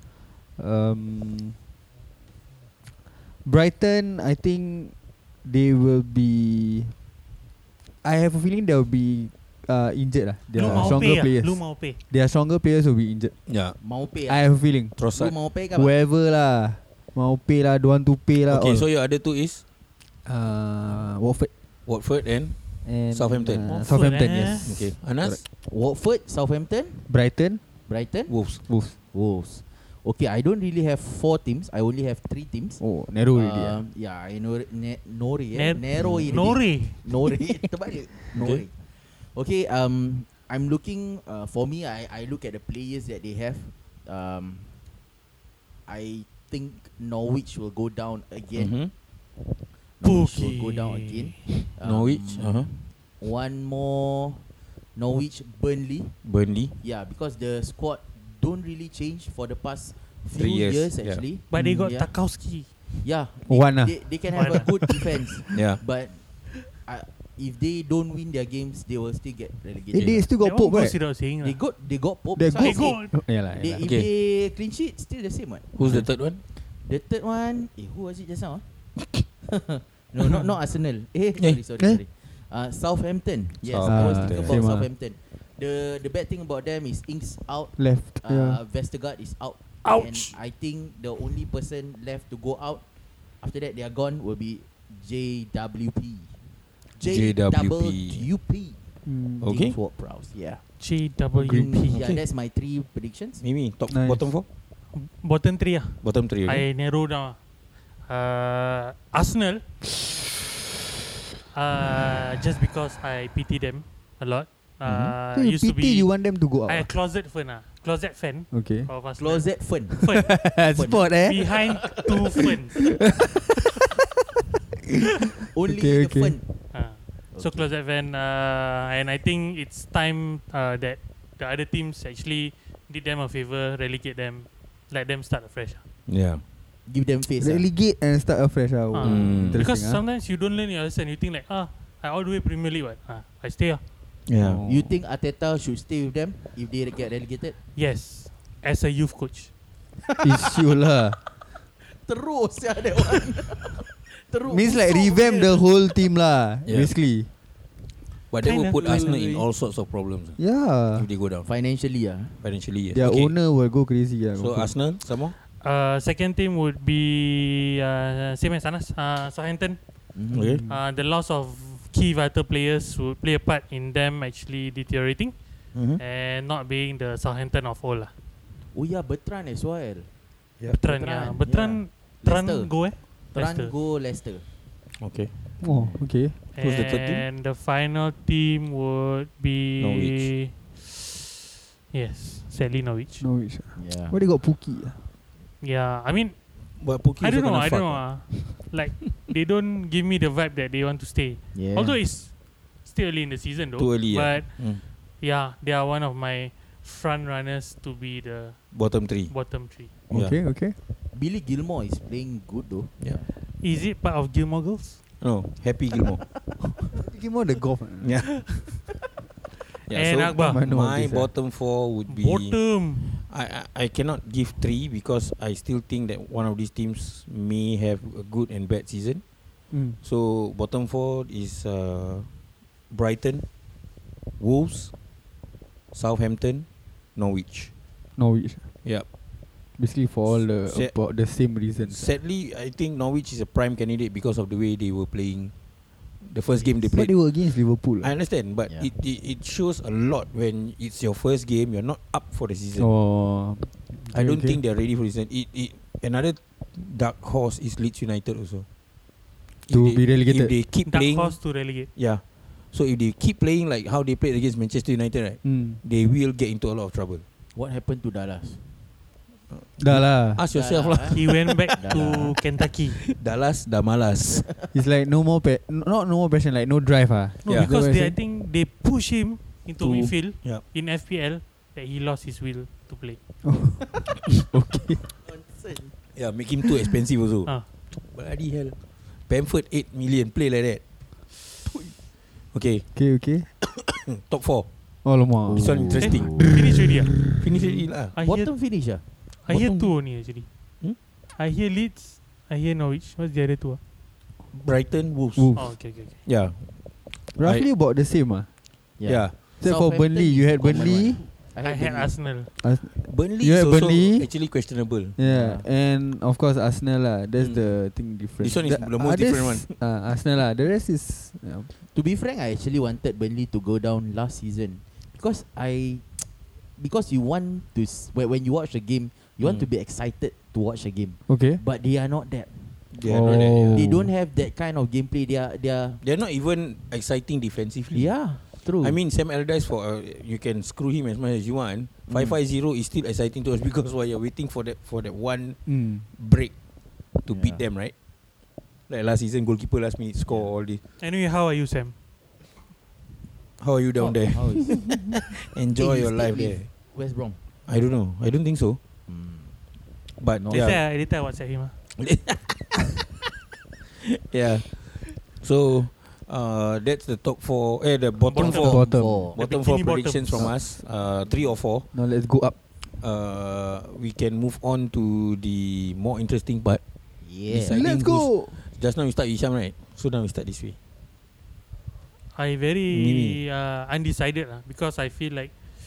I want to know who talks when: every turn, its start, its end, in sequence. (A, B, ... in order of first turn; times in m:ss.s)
0:00.6-0:01.6 A
0:03.4-0:06.9 A
0:08.0-0:13.3 A
0:10.5-0:12.0 B
0:10.7-0:11.0 C
0:13.5-0:13.8 C
0:13.8-0:14.4 D
0:14.3-0:15.0 A
0:15.0-0:15.3 C
0:15.1-0:15.9 D
0:15.8-0:18.9 A
0:18.5-0:19.6 C
0:20.2-0:21.5 A
0:21.9-0:23.7 C
0:22.8-0:25.4 A
0:23.6-0:24.7 B
0:24.6-0:25.4 C
0:25.6-0:27.1 D
0:27.1-0:27.6 A
0:27.9-0:28.4 D
0:28.3-0:28.6 C
0:28.7-0:29.0 A
0:29.1-0:44.7 D
0:32.8-0:33.8 A
0:35.5-0:37.0 B
0:38.3-0:38.6 C
0:45.9-0:48.9 D
0:48.6-0:48.9 C
0:50.0-1:02.1 D
0:50.0-0:51.5 B
0:51.8-0:52.7 C
0:56.2-0:56.7 C
1:00.4-1:01.2 C
1:01.5-1:02.7 B
1:01.5-1:01.9 A
1:03.0-1:10.3 D
1:03.5-1:04.6 A
1:04.4-1:04.7 B
1:05.5-1:05.8 C
1:09.9-1:11.0 A
1:10.4-1:11.6 B
1:11.4-1:16.1 D
1:12.4-1:13.8 A
1:12.5-1:13.1 B
1:13.8-1:14.1 C
1:15.8-1:16.4 C
1:15.8-1:16.1 A
1:16.7-1:18.6 D
1:19.4-1:32.8 D
1:23.6-1:24.6 C
1:23.8-1:24.9 A
1:27.8-1:28.6 A
1:29.8-1:30.3 B
1:33.4-1:36.3 D
1:36.9-1:40.7 D
1:37.0-1:38.2 C
1:39.0-1:39.5 A
1:39.4-1:39.8 C
1:40.8-1:42.0 B
1:41.4-1:43.4 D
1:41.5-1:41.7 A
1:41.9-1:42.2 C
1:43.4-1:44.5 C
1:43.9-1:44.3 A
1:44.9-1:47.4 B
1:46.0-1:46.6 C
1:48.1-1:49.6 B
1:51.5-1:56.1 B
1:54.8-1:55.2 C
1:55.3-1:56.9 A
1:56.7-2:00.3 B
1:58.5-1:58.9 A
1:59.2-2:02.1 D
2:00.0-2:01.7 A
2:01.2-2:02.8 B
2:05.5-2:06.5 D
2:05.6-2:06.4 A
2:06.7-2:15.8 B
2:07.3-2:07.6 D
2:16.1-2:16.4 C
2:16.9-2:17.7 D
2:17.4-2:20.0 A
2:18.9-2:23.8 B
2:19.0-2:19.7 C
2:24.3-2:24.6 C
2:24.4-2:24.9 A
2:24.6-2:27.6 D
2:27.8-2:29.5 B
2:30.2-2:31.2 A
2:31.9-2:35.8 D
2:34.5-2:37.3 A
2:36.7-2:36.9 C
2:38.3-2:41.5 C
2:38.4-2:39.1 B
2:38.8-2:39.5 D
2:40.4-2:41.1 A
2:41.5-2:42.4 D
2:42.4-2:43.4 C
2:42.9-2:44.7 A
2:44.4-2:45.4 C
2:45.6-2:49.8 B
2:50.2-2:50.6 D
2:50.3-2:50.6 C
2:50.7-2:58.1 B
2:55.7-2:56.0 C
2:58.7-3:00.1 D
3:00.8-3:03.7 B
3:00.8-3:04.4 D
3:05.0-3:05.3 C
3:05.6-3:06.4 A
3:05.6-3:06.0 D
3:06.6-3:11.1 B
3:06.6-3:07.3 C
3:09.8-3:10.3 C
3:11.9-3:13.2 B
3:13.2-3:15.0 A
3:13.8-3:14.2 D
3:15.6-3:16.4 B
3:16.8-3:18.4 C
3:17.2-3:29.9 B
3:21.5-3:22.0 D
3:23.8-3:24.8 C
3:28.7-3:29.3 C
3:30.1-3:30.4 C
3:30.1-3:30.8 A
3:31.1-3:33.3 D
3:33.6-3:35.0 B
3:35.2-3:36.5 C
3:37.0-3:38.4 A
3:38.0-3:38.9 C
3:39.9-3:49.2 C
3:39.9-3:40.6 B
3:40.4-3:41.3 A
3:42.1-3:43.1 B
3:49.7-3:50.0 A
3:50.0-3:52.3 C
3:52.9-3:53.5 C
3:54.4-3:54.9 C
3:55.9-3:57.7 C
3:58.2-3:58.6 A
3:59.8-4:02.1 A
4:00.3-4:01.0 C
4:01.9-4:05.5 C
4:06.2-4:07.4 C
4:06.7-4:08.1 A
4:08.0-4:12.9 C
4:12.8-4:14.6 A
4:14.1-4:18.6 C
4:19.7-4:20.5 A
4:19.7-4:21.4 C
4:20.9-4:21.9 B
4:22.0-4:27.2 C
4:25.4-4:25.8 A
4:27.6-4:28.6 D
4:29.5-4:31.6 C
4:29.8-4:30.4 A
4:30.5-4:32.4 D
4:31.1-4:33.0 B
4:32.9-4:34.5 C
4:34.4-4:34.7 D
4:34.7-4:38.2 A
4:37.4-4:43.2 B
4:39.8-4:40.6 C
4:43.4-4:45.0 A
4:45.2-4:45.9 D
4:46.2-4:50.8 C
4:52.5-4:52.9 C
4:53.0-4:53.5 A
4:53.7-4:54.7 C
4:55.0-4:56.8 A
4:55.5-4:56.5 D
4:55.5-4:56.6 C
4:56.0-4:57.1 B
4:57.2-4:58.1 C
4:58.1-4:58.5 B
4:58.2-4:59.0 D
4:59.4-5:00.5 B
4:59.5-4:59.9 C
5:01.4-5:03.8 B
5:04.5-5:06.8 C
5:05.4-5:05.8 A
5:05.6-5:06.2 B
5:07.4-5:08.5 A
5:07.4-5:07.7 C
5:09.0-5:12.2 D
5:09.0-5:09.4 C
5:09.6-5:11.2 A
5:11.6-5:12.5 B
5:12.6-5:14.4 A
5:13.0-5:15.2 C
5:15.2-5:21.7 A
5:15.2-5:15.7 D
5:17.4-5:19.7 C
5:21.8-5:36.0 D
5:29.4-5:29.7 C
5:31.3-5:31.6 A
5:32.9-5:33.9 C
5:33.0-5:34.1 A
5:36.0-5:38.1 C
5:37.9-5:39.0 D
5:38.8-5:46.5 C
5:42.1-5:42.4 D
5:45.7-5:46.0 A
5:47.2-5:47.9 C
5:47.3-5:47.6 D
5:48.9-5:50.8 C
5:50.2-5:50.5 D
5:51.0-5:51.9 B
5:53.6-5:56.7 C
5:54.0-5:55.2 D
5:55.8-5:57.4 D
5:57.7-5:58.8 C
5:59.1-5:59.6 D
6:00.2-6:00.8 C
6:00.4-6:00.7 D
6:00.5-6:01.8 B
6:02.0-6:03.1 C
6:04.1-6:11.9 C
6:08.2-6:10.5 B
6:08.4-6:09.3 A
6:08.4-6:09.4 D
6:11.9-6:12.6 A
6:13.0-6:16.8 C
6:17.2-6:17.8 D
6:17.5-6:20.8 C
6:17.6-6:18.6 A
6:22.3-6:25.6 B
6:22.9-6:23.4 C